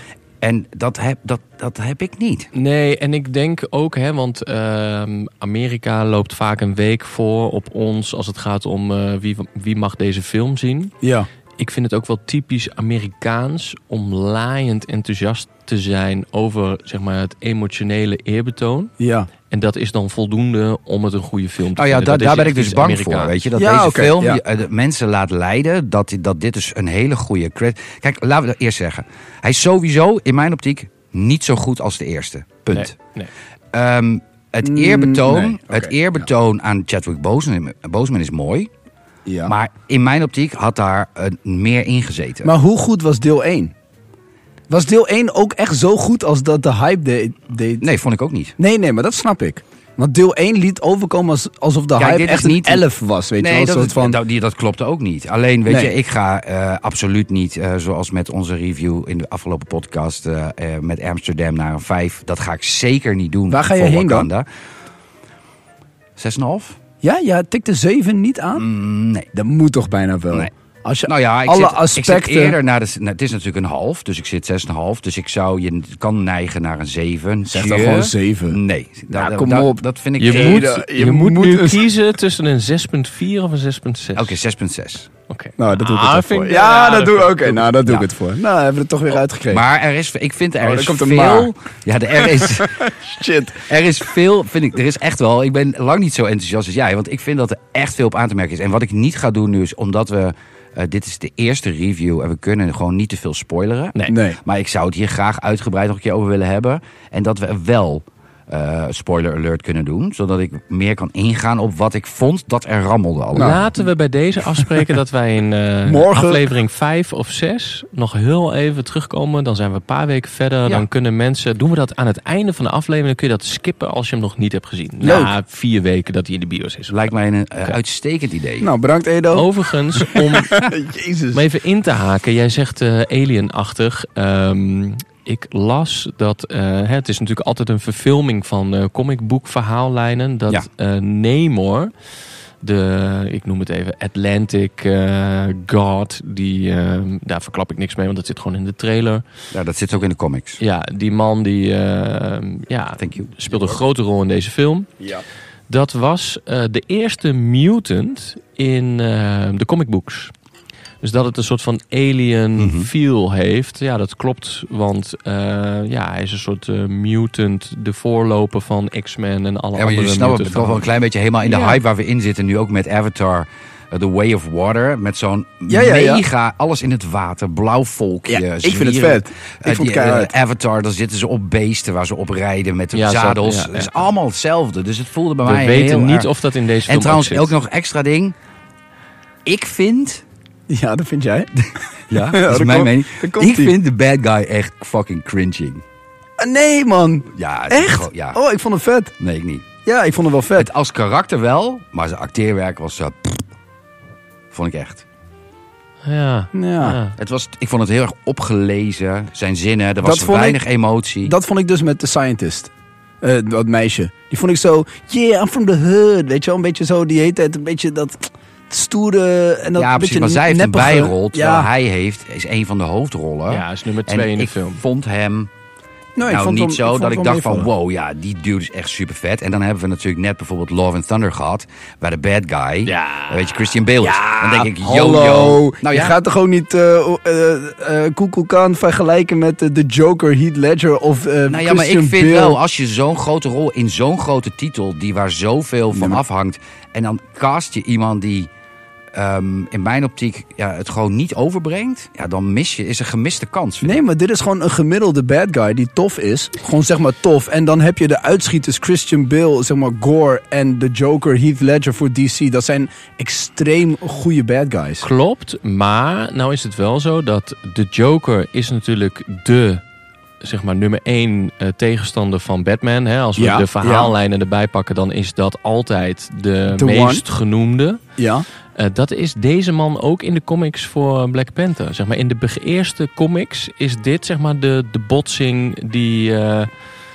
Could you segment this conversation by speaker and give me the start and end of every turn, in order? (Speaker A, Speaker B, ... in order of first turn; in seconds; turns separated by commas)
Speaker A: 0.4-2.5, Speaker B: 2.5-10.9, Speaker C: 11.0-11.3, Speaker B: 11.6-18.9, Speaker C: 19.0-19.3, Speaker B: 19.5-23.3, Speaker A: 21.8-33.0, Speaker C: 23.5-24.4, Speaker B: 32.7-33.3, Speaker A: 33.7-38.7, Speaker C: 34.6-35.9, Speaker C: 39.2-39.5, Speaker A: 39.5-42.5, Speaker C: 42.4-43.7, Speaker C: 44.7-47.9, Speaker A: 47.8-48.5, Speaker C: 48.6-54.2, Speaker A: 52.0-52.9, Speaker A: 53.4-64.5, Speaker C: 55.7-55.9, Speaker C: 63.5-64.3, Speaker A: 66.2-66.8, Speaker C: 67.0-68.7, Speaker A: 68.5-69.3, Speaker C: 69.3-72.6, Speaker A: 71.0-80.7, Speaker C: 77.5-78.6, Speaker C: 79.1-81.8, Speaker B: 80.2-84.3, Speaker A: 84.2-85.1, Speaker B: 85.3-87.7, Speaker C: 85.6-89.6, Speaker A: 89.5-92.9, Speaker C: 90.6-91.5, Speaker C: 92.2-93.7, Speaker A: 93.5-113.7, Speaker C: 104.1-104.4, Speaker C: 113.3-113.7, Speaker B: 113.4-127.0, Speaker C: 115.8-116.5, Speaker C: 125.0-125.3, Speaker A: 126.9-128.7, Speaker C: 128.6-131.4, Speaker B: 129.3-130.6, Speaker B: 131.3-141.9, Speaker B: 142.6-149.2, Speaker A: 149.5-150.6, Speaker B: 150.6-154.9, Speaker A: 153.0-153.8, Speaker B: 155.7-160.3, Speaker B: 161.0-170.8, Speaker A: 162.6-162.9, Speaker A: 169.7-186.3, Speaker B: 171.4-171.8, Speaker C: 175.7-176.2, Speaker C: 178.3-180.3, Speaker B: 182.9-183.9, Speaker B: 185.4-187.5, Speaker A: 186.8-188.3, Speaker A: 189.4-190.2, Speaker C: 190.7-193.8, Speaker A: 192.1-195.8, Speaker C: 196.4-199.1, Speaker A: 197.3-198.4, Speaker A: 199.2-199.7, Speaker C: 199.8-200.7, Speaker A: 200.6-203.5, Speaker A: 204.5-205.0, Speaker B: 206.0-207.1, Speaker C: 206.5-207.0, Speaker A: 207.2-211.3, Speaker C: 210.0-210.6, Speaker C: 211.2-212.7, Speaker C: 213.2-221.7, Speaker A: 219.8-225.5, Speaker B: 223.5-224.8, Speaker C: 226.2-227.7, Speaker A: 226.2-236.2, Speaker B: 232.8-233.7, Speaker C: 234.0-242.6, Speaker A: 241.5-248.5, Speaker C: 245.9-246.2, Speaker A: 249.1-254.0, Speaker C: 253.8-265.1, Speaker B: 265.0-269.8, Speaker B: 270.4-278.0, Speaker C: 273.4-274.1, Speaker C: 276.7-277.2, Speaker C: 278.2-278.4, Speaker B: 278.8-286.7